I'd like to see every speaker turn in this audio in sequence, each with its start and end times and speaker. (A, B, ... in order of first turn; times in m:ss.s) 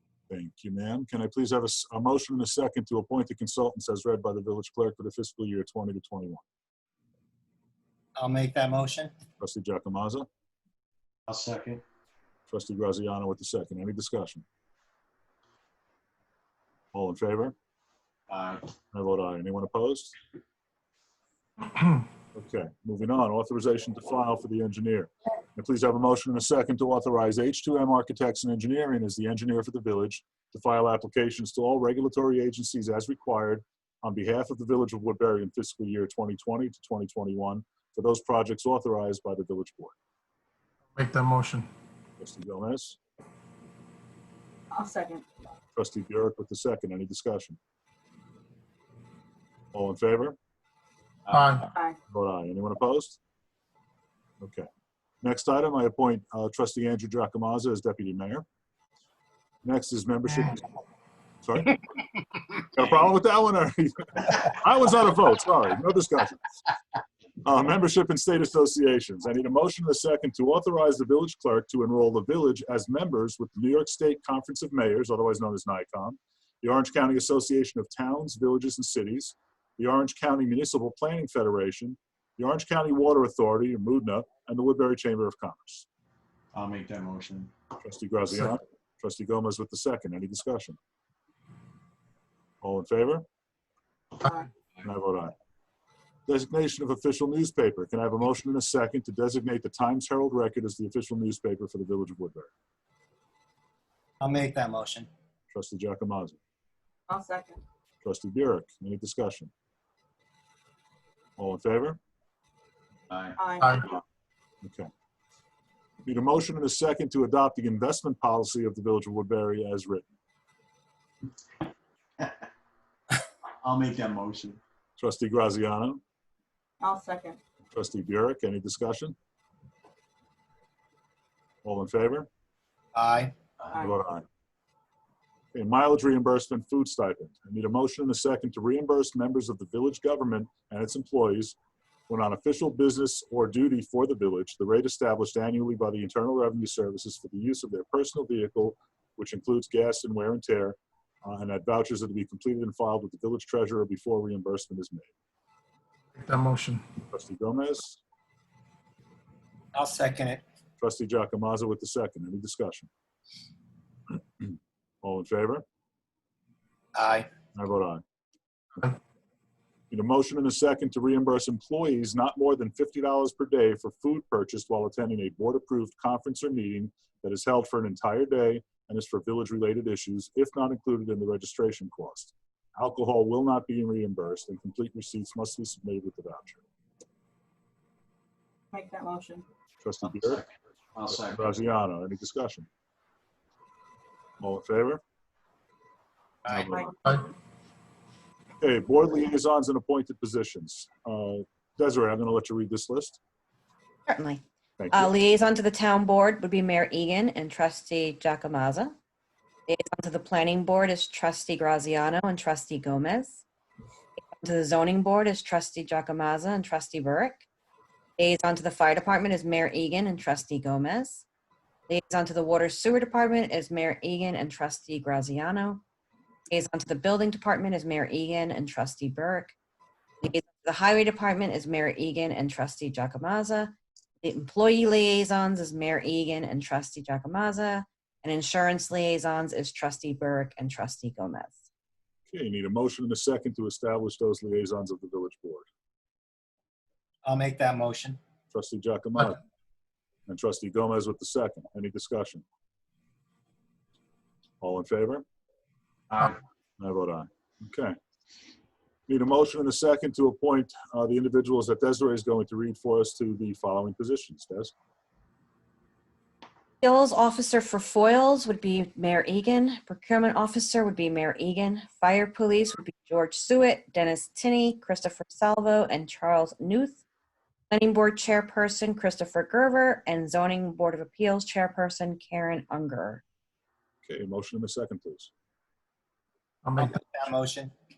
0:00.3-0:06.4 A
0:08.2-0:09.1 B
0:09.4-0:10.3 A
0:11.3-0:11.8 C
0:12.5-0:14.4 A
0:16.9-0:17.5 A
0:18.3-0:18.7 C
0:18.9-0:20.1 A
0:22.3-0:39.9 A
0:41.0-0:41.7 D
0:42.2-0:43.0 A
0:44.7-0:45.2 E
0:45.7-0:47.6 A
0:49.7-0:50.4 A
0:51.3-0:51.7 D
0:52.1-0:53.2 A
0:54.4-0:54.7 A
0:55.2-0:58.4 A
0:59.6-1:00.7 A
1:01.4-1:01.8 A
1:02.7-1:06.5 A
1:07.4-1:25.8 A
1:26.5-1:27.5 C
1:27.8-1:30.8 A
1:32.6-1:33.2 A
1:34.8-1:35.3 A
1:36.3-1:42.5 A
1:44.2-1:45.1 B
1:45.5-1:46.4 A
1:47.1-1:47.5 E
1:48.0-1:49.5 A
1:51.4-1:52.0 A
1:53.1-1:53.4 C
1:54.6-1:54.9 A
1:56.0-2:00.1 A
2:03.6-2:04.6 C
2:05.0-2:06.0 A
2:06.8-2:07.4 E
2:07.7-2:09.2 A
2:11.6-2:12.3 A
2:12.9-2:13.3 B
2:13.7-2:14.2 A
2:15.5-2:21.6 A
2:22.1-2:35.1 A
2:36.2-2:36.8 D
2:37.1-2:38.0 A
2:39.7-2:40.4 B
2:40.8-2:42.9 A
2:44.4-2:45.6 A
2:46.9-2:47.3 B
2:47.5-2:48.0 A
2:49.9-3:06.6 A
3:08.7-3:09.4 E
3:09.8-3:10.4 A
3:10.2-3:11.5 C
3:11.1-3:12.7 A
3:14.4-3:15.0 A
3:16.4-3:16.8 B
3:18.6-3:23.2 A
3:24.1-3:28.9 F
3:24.8-3:25.1 A
3:29.7-3:33.4 F
3:34.3-3:37.4 F
3:38.2-3:41.2 F
3:41.9-3:45.8 F
3:46.5-3:49.5 F
3:50.2-4:01.6 F
4:02.3-4:05.7 A
4:07.2-4:08.2 B
4:08.5-4:09.4 A
4:10.3-4:12.4 A
4:14.6-4:15.2 A
4:16.1-4:16.4 C
4:16.8-4:17.9 A
4:19.1-4:24.7 A
4:26.8-4:37.0 F
4:37.7-4:43.2 F
4:44.0-4:45.3 A
4:46.6-4:46.9 D
4:46.8-4:47.7 B